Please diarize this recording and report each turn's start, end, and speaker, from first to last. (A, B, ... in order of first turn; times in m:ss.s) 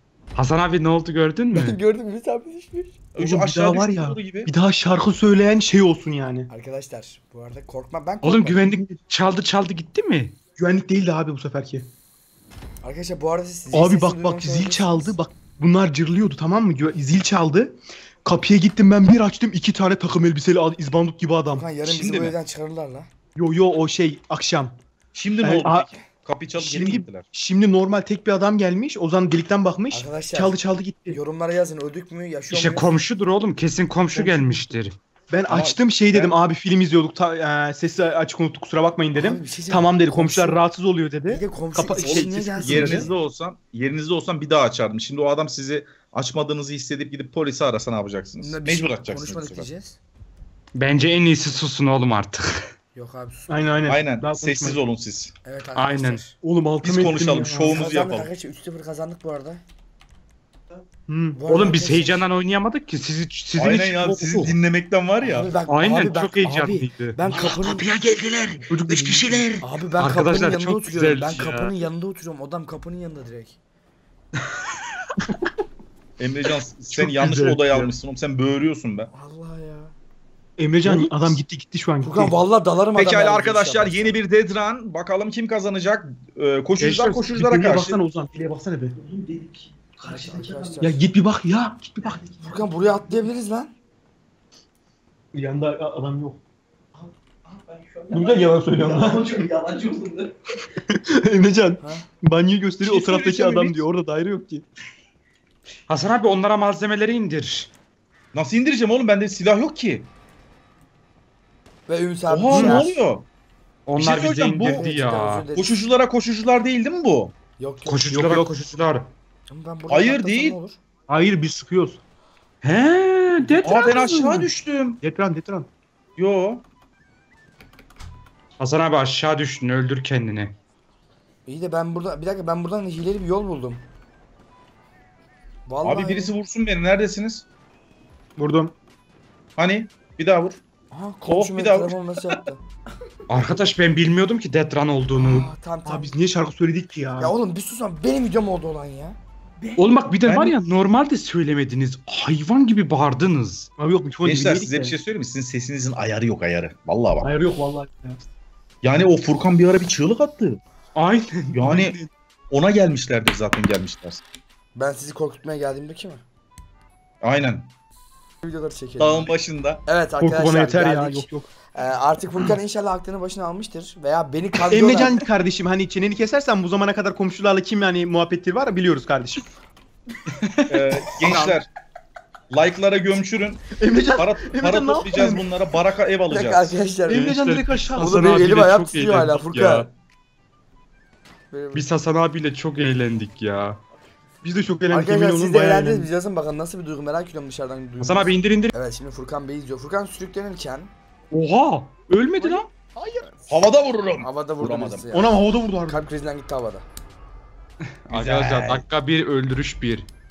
0:00.4-0:01.8 A
0:01.5-0:02.9 B
0:03.2-0:04.5 C
0:03.2-0:06.5 D
0:06.5-0:08.8 B
0:08.2-0:10.4 A
0:10.6-0:11.9 D
0:12.8-0:15.2 B
0:13.7-0:21.7 D
0:21.5-0:23.1 B
0:21.8-0:22.4 C
0:23.4-0:24.8 D
0:25.1-0:27.3 C
0:25.4-0:25.9 D
0:26.6-0:31.2 D
0:29.9-0:30.6 B
0:31.1-0:32.9 B
0:32.5-0:35.0 A
0:34.1-0:34.7 D
0:35.3-0:43.1 D
0:35.5-0:36.4 C
0:39.2-0:40.6 B
0:41.3-0:43.1 B
0:42.0-0:49.7 C
0:48.4-0:50.0 B
0:50.8-0:52.6 A
0:53.0-0:53.7 B
0:53.5-0:54.8 D
0:53.9-0:55.3 C
0:55.4-0:56.3 B
0:55.8-0:56.2 A
0:56.4-0:57.8 D
0:56.8-0:58.3 C
0:57.7-0:59.6 B
1:01.1-1:01.4 D
1:01.4-1:02.2 B
1:01.5-1:04.6 A
1:03.6-1:05.5 C
1:05.2-1:07.9 B
1:05.7-1:08.6 A
1:07.6-1:09.5 E
1:08.7-1:09.5 D
1:09.3-1:11.7 A
1:09.6-1:13.6 B
1:16.2-1:19.1 C
1:16.9-1:17.9 A
1:19.1-1:19.9 B
1:20.6-1:22.4 D
1:20.8-1:21.4 C
1:22.0-1:24.2 B
1:23.0-1:28.0 C
1:26.8-1:27.4 A
1:27.4-1:29.0 D
1:29.0-1:30.9 E
1:30.0-1:31.1 B
1:30.8-1:32.2 D
1:32.0-1:32.5 E
1:32.4-1:33.7 B
1:35.3-1:36.4 D
1:37.0-1:40.4 E
1:38.1-1:39.4 D
1:40.8-1:44.7 D
1:41.8-1:42.1 B
1:42.8-1:43.8 C
1:45.9-1:47.7 A
1:48.3-1:50.1 C
1:51.9-1:53.0 B
1:52.3-1:53.3 C
1:52.5-1:52.8 D
1:53.9-1:55.4 A
1:54.0-1:54.9 C
1:54.7-1:55.9 B
1:55.6-1:57.4 C
1:57.6-1:58.1 B
1:57.9-1:59.1 A
1:58.1-1:58.6 D
1:59.5-2:00.8 B
1:59.9-2:00.6 C
2:01.1-2:02.0 D
2:02.6-2:04.4 A
2:03.6-2:05.0 C
2:03.9-2:04.3 D
2:05.0-2:05.7 D
2:06.2-2:06.6 C
2:08.6-2:10.5 A
2:11.5-2:13.8 B
2:15.7-2:16.3 B
2:15.8-2:17.4 C
2:18.4-2:18.7 D
2:19.6-2:20.6 C
2:20.9-2:22.6 B
2:21.3-2:22.4 C
2:23.3-2:25.5 A
2:25.2-2:26.2 B
2:25.9-2:27.3 D
2:27.2-2:29.2 B
2:29.8-2:33.7 A
2:30.2-2:30.6 C
2:33.8-2:35.0 D
2:34.2-2:37.3 C
2:37.2-2:38.2 D
2:38.8-2:40.6 C
2:41.0-2:41.8 A
2:41.5-2:42.0 C
2:41.7-2:42.1 D
2:42.5-2:44.2 C
2:44.8-2:46.2 B
2:47.2-2:47.7 C
2:48.4-2:49.3 B
2:49.0-2:49.8 C
2:49.9-2:55.2 B
2:50.2-2:51.5 D
2:54.7-2:59.5 D
3:00.7-3:01.7 C
3:02.5-3:06.7 C
3:03.8-3:05.5 D
3:06.3-3:07.4 B
3:07.1-3:08.4 D
3:07.2-3:09.9 A
3:08.0-3:09.9 B
3:11.5-3:11.8 B
3:11.7-3:13.8 A
3:14.4-3:16.1 D
3:14.9-3:20.9 B
3:18.0-3:18.7 A
3:21.3-3:22.7 A
3:22.4-3:26.8 B
3:23.5-3:25.1 C
3:25.1-3:26.1 D
3:28.1-3:30.1 A
3:28.1-3:28.8 C